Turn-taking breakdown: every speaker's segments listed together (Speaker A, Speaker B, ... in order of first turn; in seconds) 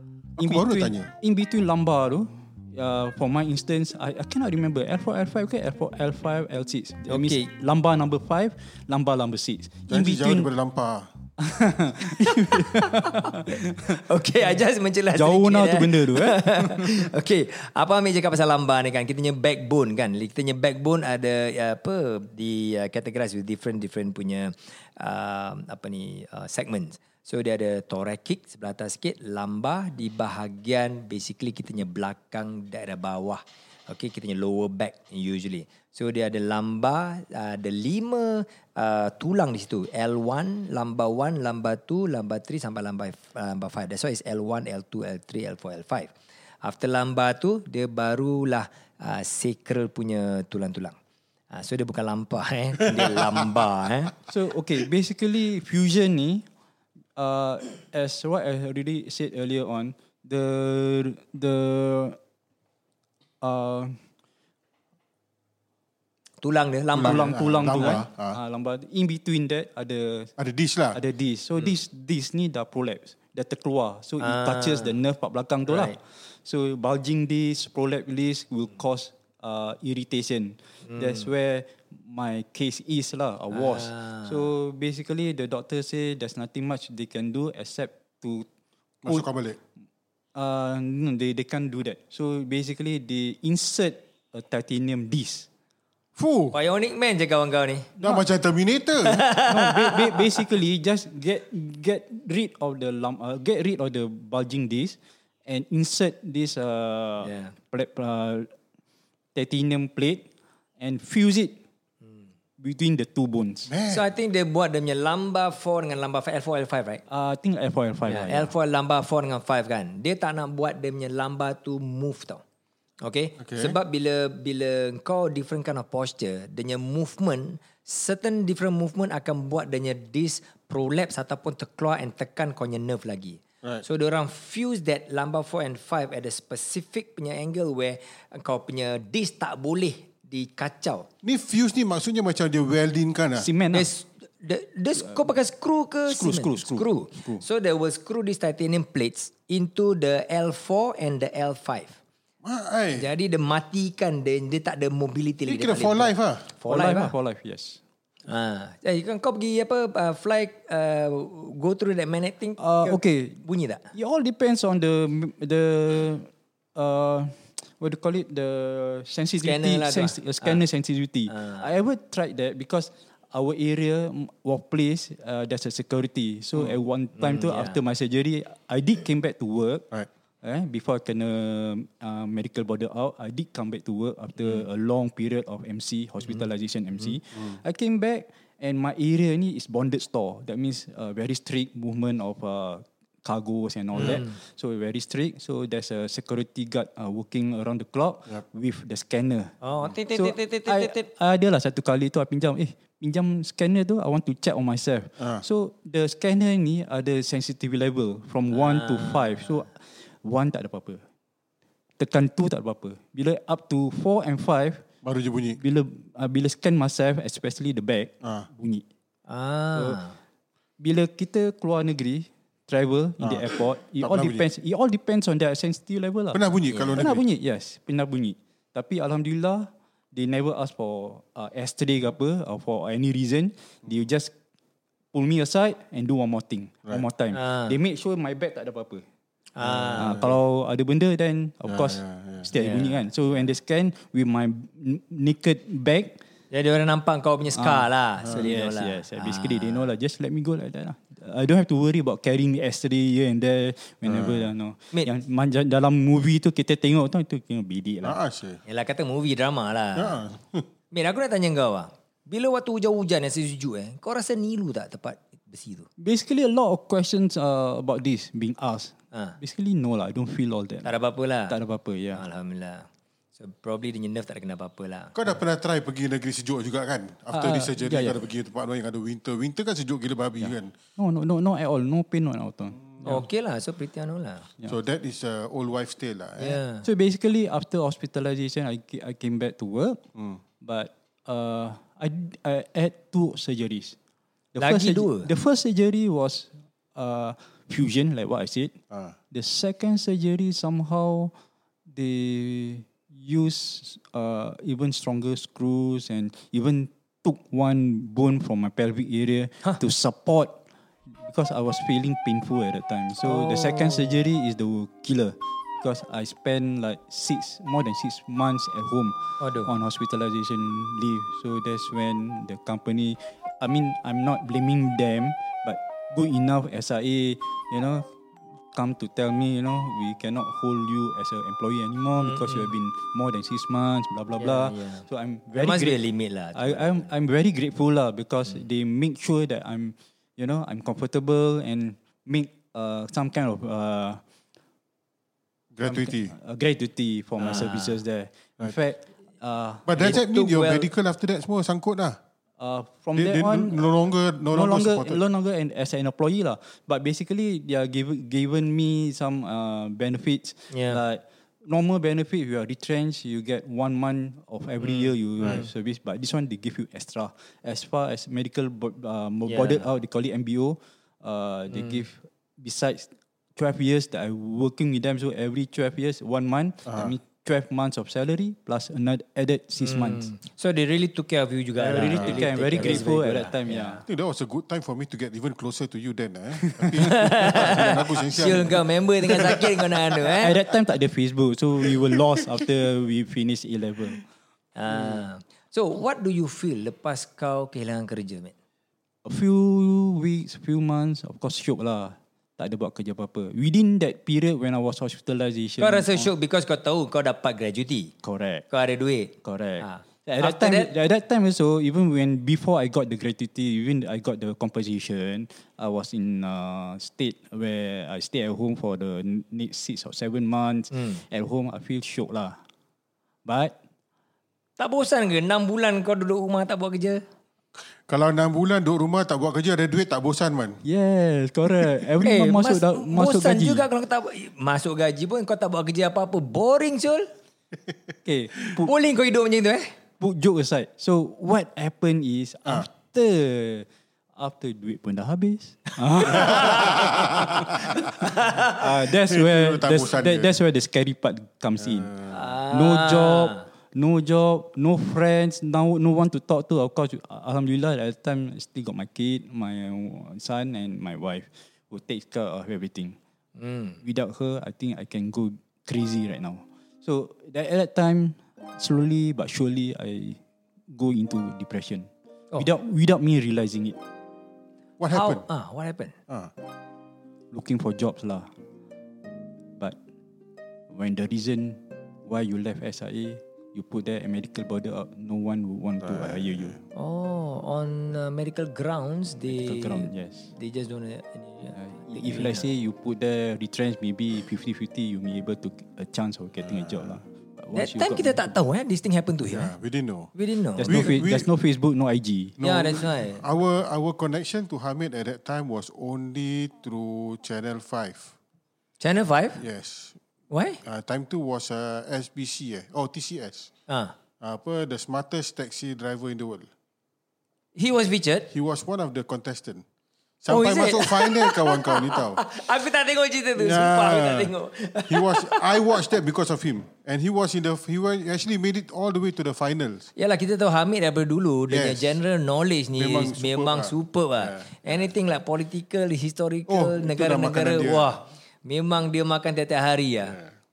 Speaker A: 0.4-1.1, 9.9-11.1, 53.0-53.6, 66.9-68.4, 70.4-71.0, 89.0-89.6, 96.2-96.5, 98.0-99.2, 113.7-114.0, 123.4-123.8, 141.2-143.5, 152.4-153.1, 155.4-156.5, 205.2-205.4, 215.0-215.6, 218.2-218.5, 223.2-224.4, 226.3-227.2, 239.6-240.3, 241.7-242.5, 254.0-254.5, 258.0-258.6, 259.9-260.7, 275.1-280.7, 284.6-286.6, 290.1-290.4, 345.7-346.3, 349.9-352.2, 353.1-355.2, 376.9-377.1, 382.1-382.9, 384.0-389.9, 428.1-430.8, 446.6-447.6, 449.1-450.6, 451.8-452.3, 475.0-475.4, 486.0-486.8, 496.6-497.1, 499.5-500.3, 500.9-501.5, 502.6-508.3, 509.6-510.2, 510.8-513.7, 514.4-516.7, 518.5-519.8, 520.4-522.4, 523.6-524.5, 525.1-530.1, 531.7-532.2, 533.0-535.0, 536.7-538.1
Speaker B: 0.4-10.5, 11.4-14.0, 15.1-16.9, 54.3-56.4, 57.1-62.2, 63.4-64.0, 67.0-70.3, 70.9-88.5, 90.3-95.5, 99.4-108.5, 109.3-111.6, 112.6-113.7, 117.1-118.5, 143.3-143.9, 146.1-147.4, 156.6-157.8, 162.6-179.8, 180.4-199.5, 200.1-211.0, 212.0-214.8, 215.6-218.8, 220.8-226.4, 226.9-234.3, 235.1-239.0, 240.0-246.2, 247.6-258.2, 266.0-270.9, 271.5-272.2, 277.3-278.2, 280.4-283.2, 286.8-290.0, 290.6-293.9, 294.5-298.7, 299.3-301.3, 301.9-310.6, 311.2-328.1, 328.7-336.0, 336.5-344.2, 345.8-350.2, 352.6-353.8, 354.5-380.3, 381.8-384.0, 386.7-387.8, 390.4-394.2, 399.2-406.3, 408.2-408.6, 409.4-422.6, 423.4-423.7, 430.8-433.9, 438.2-438.9, 440.2-463.2, 464.0-470.4, 470.9-474.0, 477.5-478.5, 480.9-486.7, 489.4-490.5, 491.7-498.5, 500.8-502.6
Speaker C: 7.1-7.5, 12.2-51.0, 51.5-54.1, 66.4-68.0, 74.2-75.0, 75.7-76.0, 80.8-81.3, 83.5-84.5, 96.5-97.9, 99.0-100.2, 107.2-107.5, 113.8-117.0, 118.0-122.4, 123.0-141.1, 143.7-152.0, 152.9-157.1, 158.3-163.9, 169.4-170.6, 171.3-171.6, 177.2-177.8, 193.9-194.3, 199.6-201.0, 208.5-209.6, 219.3-220.2, 226.7-227.0, 237.3-237.8, 239.5-240.3, 242.5-243.4, 246.5-249.9, 258.6-260.2, 260.9-265.9, 269.1-269.4, 270.8-271.5, 272.1-275.4, 283.0-284.5, 286.4-286.9, 294.6-295.3, 313.2-314.2, 319.4-319.7, 332.2-332.7, 334.4-337.1, 347.5-347.9, 350.0-350.9, 360.7-361.0, 364.8-365.7, 369.5-369.9, 371.7-372.0, 379.8-384.0, 387.0-390.6, 394.8-398.5, 405.8-408.1, 408.7-410.9, 420.9-421.2, 424.8-427.2, 432.2-437.3, 438.8-439.9, 446.3-447.0, 448.2-448.8, 452.3-453.7, 463.6-464.0, 475.1-476.1, 486.9-492.6, 497.7-499.7, 500.3-501.2, 502.6-503.4, 509.0-509.6, 510.5-510.8, 513.9-514.1, 517.8-518.5, 520.5-526.0, 530.1-540.4